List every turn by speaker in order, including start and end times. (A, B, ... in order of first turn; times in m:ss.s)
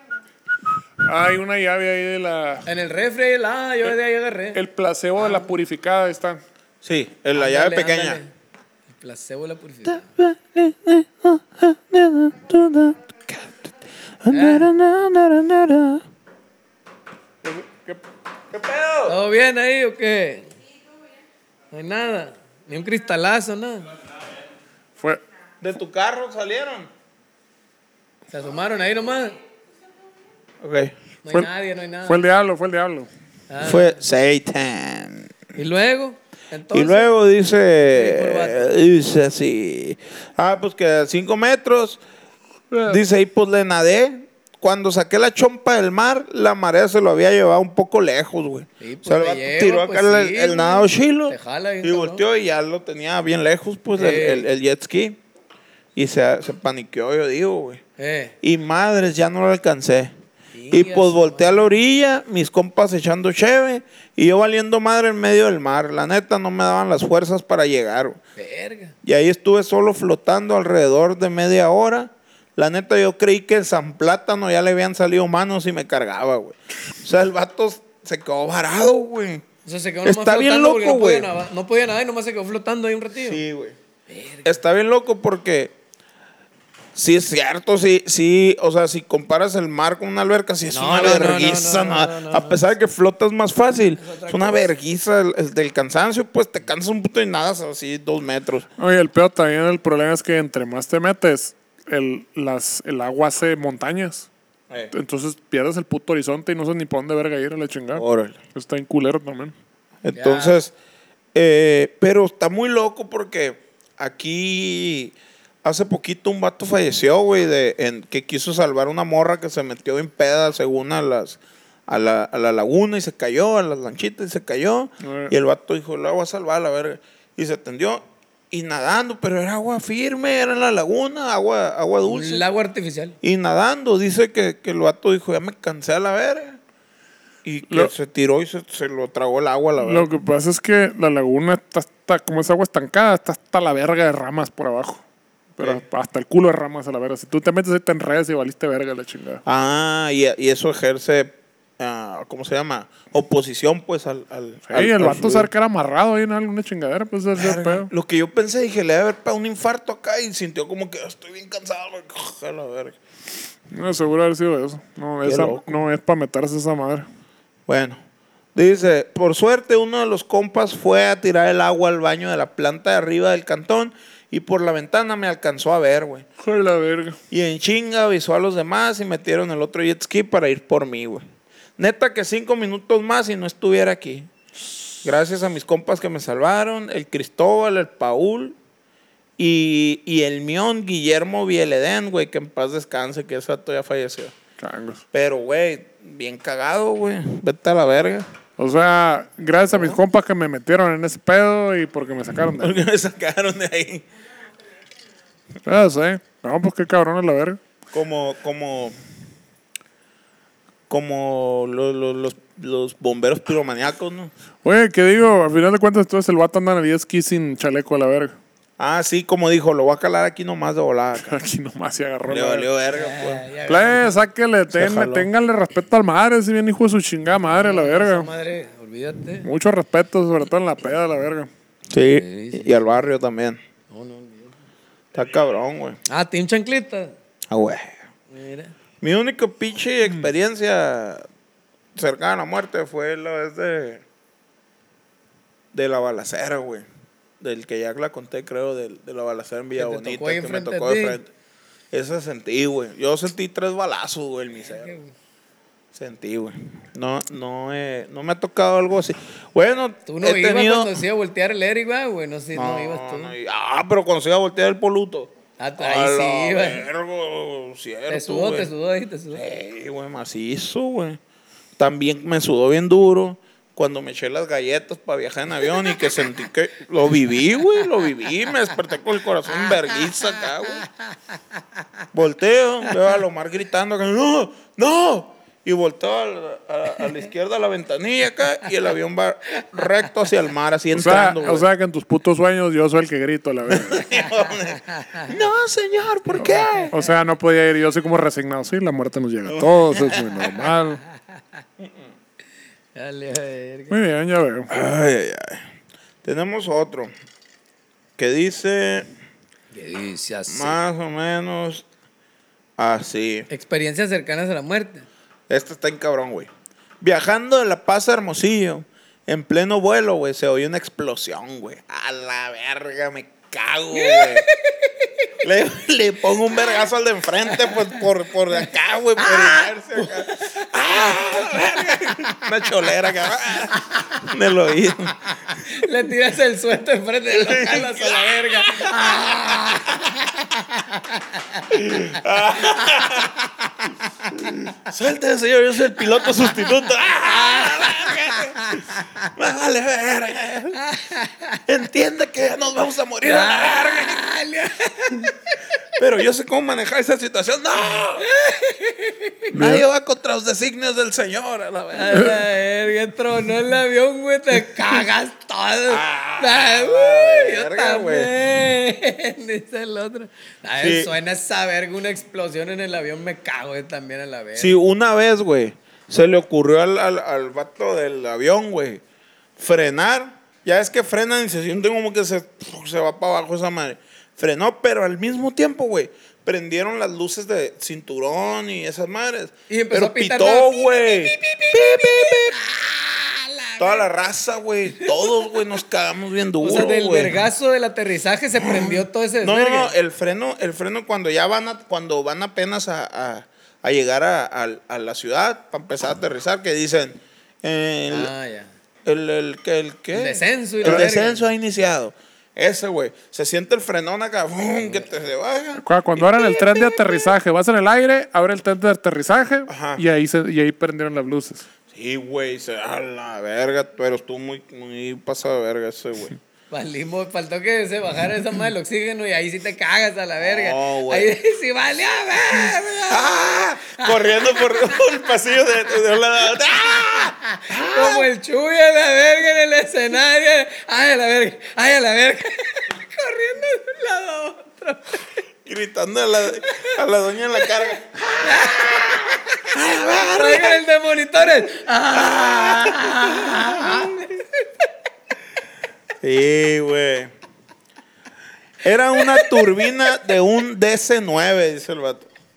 0:01.0-0:02.6 A
0:02.6-0:04.6 B
0:04.5-0:06.4 A
0:05.2-0:05.5 B
0:06.8-0:08.2 C
0:07.3-0:08.3 B
0:08.9-0:10.1 B
0:09.9-0:13.7 C
0:14.2-0:16.0 C
0:14.3-0:14.7 B
0:17.4-0:18.0 A
0:18.5-0:19.1 C
0:19.0-0:20.5 B
0:21.7-0:23.9 B
0:25.6-0:26.9 C
0:28.3-0:29.4 B
0:30.6-0:30.9 C
0:31.2-0:32.2 B
0:32.0-0:33.1 A
0:33.5-0:34.0 B
0:33.6-0:35.4 C
0:35.5-0:37.1 B
0:36.7-0:42.0 C
0:37.8-0:38.7 B
0:42.7-0:43.0 A
0:42.9-0:55.2 C
0:48.8-0:52.2 B
0:53.9-0:54.5 B
0:55.9-0:57.8 C
0:58.0-0:58.3 B
0:58.4-1:00.1 C
1:00.5-1:01.7 B
1:00.7-1:08.2 C
1:08.4-1:08.9 B
1:09.0-1:19.4 C
1:19.6-1:23.4 B
1:20.0-1:21.3 C
1:23.2-1:23.8 C
1:24.1-1:24.6 B
1:24.4-1:25.7 C
1:26.9-1:38.7 C
1:30.7-1:32.6 B
1:34.0-1:34.7 B
1:38.8-1:44.3 A
1:44.9-1:49.5 A
1:47.9-1:48.4 C
1:50.0-1:50.7 C
1:50.1-1:50.6 B
1:51.3-2:12.4 C
2:05.0-2:05.3 A
2:12.0-2:13.2 B
2:13.2-2:16.6 C
2:17.4-2:20.1 C
2:19.8-2:25.0 A
2:25.6-2:29.4 A
2:29.4-2:35.5 C
2:34.7-2:37.9 A
2:37.3-2:43.0 C
2:43.7-2:47.0 A
2:45.2-2:45.8 C
2:47.7-2:48.0 C
2:48.5-2:56.2 C
2:56.4-2:57.2 A
2:57.3-3:01.2 C
3:01.8-3:04.3 C
3:05.0-3:08.6 C
3:09.4-3:14.3 C
3:14.6-3:15.0 A
3:15.1-3:18.3 C
3:18.6-3:22.8 A
3:19.7-3:20.0 C
3:22.6-3:24.0 C
3:25.6-3:27.6 A
3:27.9-3:29.0 C
3:30.9-3:34.3 C
3:34.6-3:38.3 A
3:38.8-3:41.4 C
3:41.2-3:42.7 A
3:42.3-3:43.4 C
3:42.9-3:44.2 B
3:43.7-3:48.3 A
3:44.7-3:45.3 C
3:47.5-3:49.5 B
3:49.4-3:51.5 A
3:51.9-3:53.6 C
3:52.1-3:52.9 B
3:53.9-3:54.6 B
3:55.1-3:56.0 C
3:56.1-3:57.1 B
3:57.5-3:58.0 C
3:58.3-3:58.7 B
3:59.0-4:01.2 C
4:01.9-4:04.0 C
4:05.7-4:06.8 C
4:07.4-4:11.3 C
4:09.8-4:11.2 B
4:11.9-4:14.9 C
4:14.6-4:15.1 B
4:15.9-4:21.0 C
4:20.0-4:23.3 B
4:22.5-4:28.7 C
4:25.6-4:26.8 B
4:28.1-4:29.4 B
4:29.3-4:31.2 C
4:31.8-4:40.9 C
4:42.1-4:51.6 C
4:50.9-4:54.0 A
4:53.7-4:56.9 C
4:54.0-4:55.3 B
4:56.4-5:01.0 A
4:56.4-4:56.9 B
4:59.5-5:00.3 C
5:01.8-5:02.1 C
5:02.9-5:04.0 B
5:03.9-5:04.7 A
5:04.7-5:05.6 C
5:06.2-5:07.1 C
5:08.2-5:09.1 C
5:09.7-5:10.8 B
5:10.5-5:11.8 C
5:12.8-5:13.5 C
5:13.5-5:15.1 B
5:15.5-5:16.5 C
5:17.0-5:24.4 C
5:23.9-5:25.3 B
5:25.4-5:35.3 C
5:27.5-5:28.0 B
5:29.2-5:32.3 B
5:35.5-5:41.7 B
5:37.3-5:40.1 C
5:41.7-5:50.8 C
5:47.2-5:49.3 B
5:50.7-5:51.6 B
5:51.7-5:54.2 C
5:53.2-5:55.5 B
5:55.9-5:58.3 C
5:58.2-5:59.5 B
5:59.5-5:59.8 A
5:59.5-6:02.4 C
6:01.9-6:14.8 B
6:05.9-6:08.3 C
6:10.8-6:11.1 C
6:14.6-6:19.0 C
6:19.6-6:32.6 C
6:29.7-6:34.0 B
6:33.8-6:37.4 C
6:35.0-6:35.6 B
6:36.6-6:39.9 B
6:38.6-6:48.3 C
6:48.1-6:48.7 B
6:49.0-6:57.0 C
6:50.1-6:51.4 B
6:55.8-7:01.6 A
6:59.7-7:00.0 C
7:01.9-7:06.4 C
7:06.7-7:15.1 B
7:10.4-7:11.3 C
7:13.1-7:18.3 C
7:16.9-7:25.4 B
7:25.6-7:30.8 C
7:26.7-7:27.0 B
7:28.4-7:29.7 B
7:30.3-7:34.7 B
7:32.1-7:34.2 C
7:36.2-7:37.3 C
7:38.8-7:42.3 C
7:39.2-7:39.8 B